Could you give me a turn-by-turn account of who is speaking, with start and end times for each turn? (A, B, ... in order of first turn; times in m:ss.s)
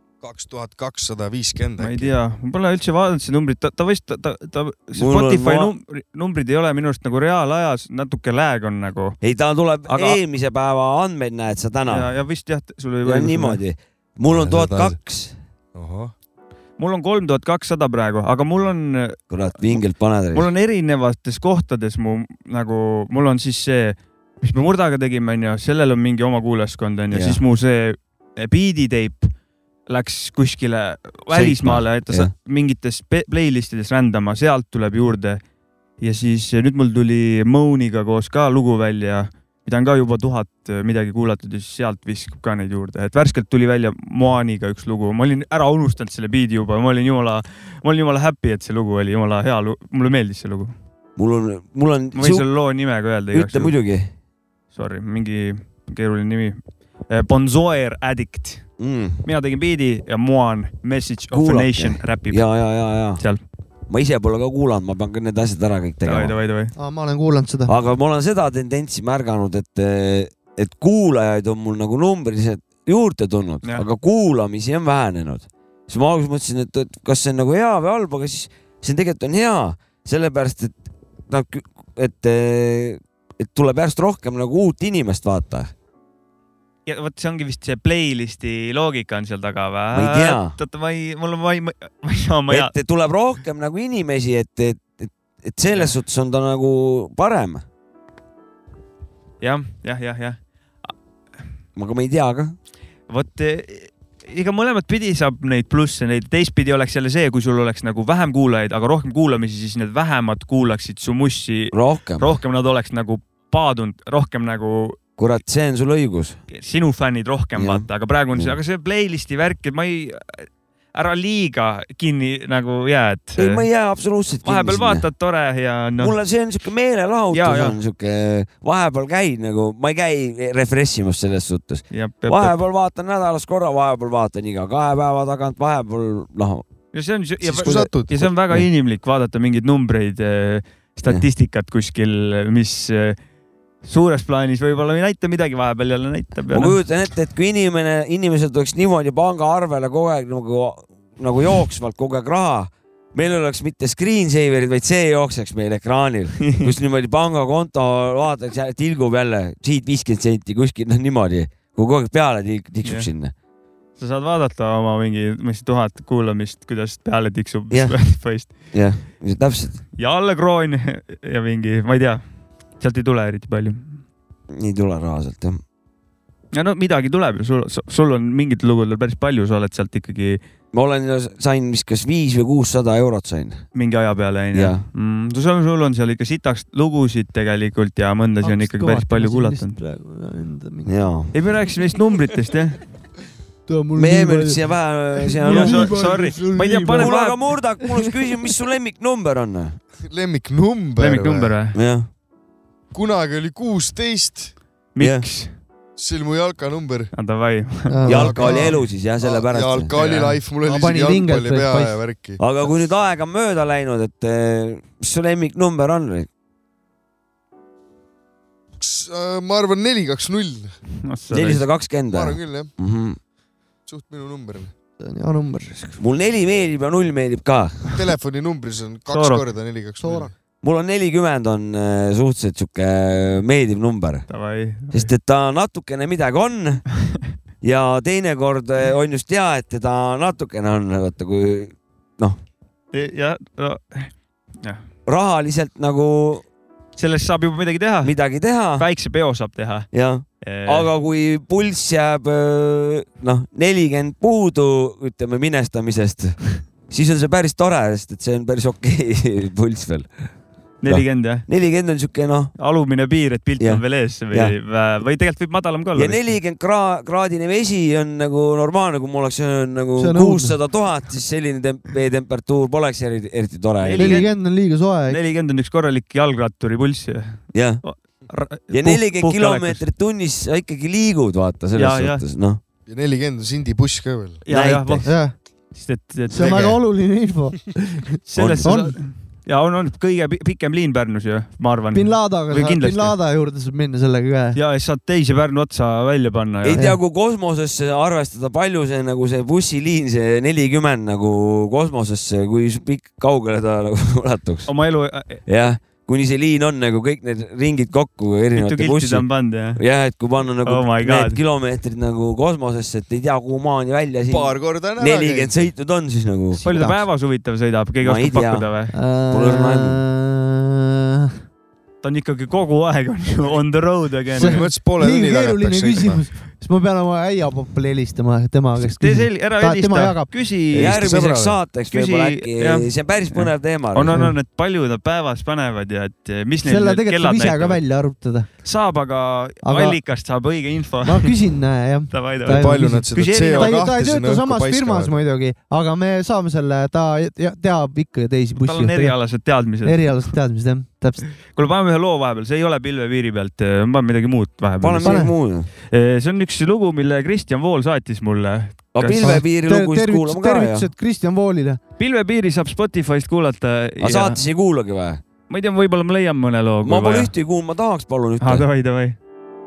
0:00.2-0:02.1 A
0:01.8-0:09.2 B
0:05.0-0:05.7 C
0:09.2-0:12.1 C
0:09.9-0:10.2 B
0:11.8-0:13.6 B
0:13.0-0:15.3 C
0:14.3-0:15.0 A
0:15.7-0:16.1 A
0:16.8-0:19.8 B
0:19.3-0:20.4 C
0:20.3-0:29.3 B
0:27.1-0:27.4 C
0:29.9-0:35.4 B
0:31.3-0:32.3 C
0:36.0-0:50.7 B
0:51.2-0:52.4 C
0:52.1-0:53.7 B
0:53.3-0:54.1 C
0:54.7-0:56.6 B
0:57.1-0:58.7 B
0:58.8-0:59.2 C
0:59.2-1:02.4 B
1:01.3-1:03.2 C
1:03.9-1:06.3 C
1:06.0-1:06.7 B
1:06.8-1:07.7 D
1:07.6-1:20.8 C
1:21.3-1:25.7 C
1:26.8-1:32.7 B
1:29.9-1:30.5 C
1:32.5-1:37.6 C
1:39.4-1:40.4 B
1:41.8-1:42.6 C
1:43.1-1:55.0 B
1:51.7-1:52.3 C
1:55.2-1:56.4 C
1:56.5-2:03.6 B
1:57.6-1:58.6 C
2:03.4-2:05.0 C
2:04.4-2:06.2 B
2:06.0-2:16.6 C
2:07.3-2:07.8 B
2:11.9-2:12.6 B
2:16.9-2:23.2 B
2:17.4-2:18.3 A
2:23.8-2:26.8 B
2:26.5-2:43.3 C
2:36.4-2:36.7 B
2:42.8-2:43.1 B
2:44.0-2:48.7 B
2:47.7-2:49.8 C
2:50.0-2:52.2 B
2:52.8-2:54.0 B
2:54.5-2:55.6 C
2:56.5-3:00.4 B
3:00.7-3:03.6 C
3:03.7-3:09.8 B
3:04.5-3:04.8 C
3:08.4-3:10.9 D
3:10.8-3:11.3 C
3:11.3-3:12.8 B
3:13.7-3:14.6 D
3:14.0-3:16.0 C
3:15.2-3:17.2 D
3:15.4-3:17.6 B
3:17.0-3:19.8 C
3:20.1-3:21.5 A
3:21.0-3:21.8 B
3:21.7-3:22.1 C
3:22.9-3:24.5 A
3:25.0-3:25.6 B
3:25.0-3:25.3 C
3:26.0-3:27.1 A
3:27.1-3:28.0 B
3:27.9-3:28.7 D
3:28.0-3:29.9 C
3:28.0-3:32.4 A
3:29.9-3:30.4 B
3:30.6-3:32.0 D
3:32.4-3:36.3 C
3:38.8-3:40.7 A
3:41.0-3:41.6 B
3:41.3-3:43.2 C
3:42.1-3:42.7 A
3:43.9-3:44.7 A
3:45.0-3:46.0 D
3:46.0-3:47.9 C
3:47.9-3:50.3 A
3:49.1-3:49.4 B
3:50.0-3:50.3 D
3:50.6-3:54.3 C
3:54.3-3:55.1 B
3:54.9-3:56.8 C
3:57.6-4:02.4 C
4:02.9-4:04.8 B
4:05.0-4:06.4 C
4:07.0-4:08.1 B
4:08.0-4:08.8 C
4:08.7-4:09.9 B
4:09.9-4:20.3 C
4:10.4-4:10.9 B
4:20.8-4:21.4 B
4:20.9-4:22.5 C
4:22.6-4:26.2 B
4:23.6-4:24.5 C
4:26.0-4:34.2 C
4:30.0-4:30.6 D
4:33.8-4:34.3 B
4:34.0-4:35.2 D
4:35.1-4:39.8 B
4:37.5-4:37.8 C
4:38.7-4:42.6 C
4:41.7-4:42.2 B
4:42.9-4:44.4 A
4:44.4-4:45.2 B
4:44.5-4:45.1 C
4:45.0-4:45.3 D
4:45.7-4:46.8 B
4:46.3-4:48.1 D
4:48.2-4:53.1 B
4:48.4-4:48.7 C
4:48.6-4:48.9 D
4:51.9-4:54.6 D
4:54.5-4:56.8 B
4:56.6-5:04.7 C
5:04.7-5:05.4 B
5:05.4-5:09.2 C
5:08.5-5:09.8 B
5:09.8-5:16.6 C
5:10.6-5:11.4 B
5:14.3-5:15.6 A
5:16.5-5:17.0 D
5:16.6-5:18.9 B
5:18.0-5:18.7 C
5:18.9-5:21.3 D
5:19.3-5:20.0 C
5:22.0-5:24.6 B
5:24.3-5:26.2 A
5:24.3-5:30.3 D
5:28.8-5:31.1 B
5:30.7-5:31.6 A
5:30.7-5:34.2 C
5:31.9-5:37.8 B
5:36.6-5:38.5 D
5:38.6-5:41.4 B
5:39.6-5:40.0 D
5:41.0-5:49.2 D
5:42.1-5:43.8 B
5:42.4-5:45.2 A
5:48.6-5:50.2 B
5:49.8-5:51.2 D
5:51.4-5:55.3 B
5:54.8-5:55.7 C
5:55.0-5:55.3 D
5:55.8-5:59.4 B
5:58.9-6:00.9 C
5:59.2-6:01.8 D
6:02.0-6:04.4 B
6:04.0-6:05.2 C
6:05.5-6:07.3 B
6:06.8-6:08.6 C
6:08.4-6:09.2 B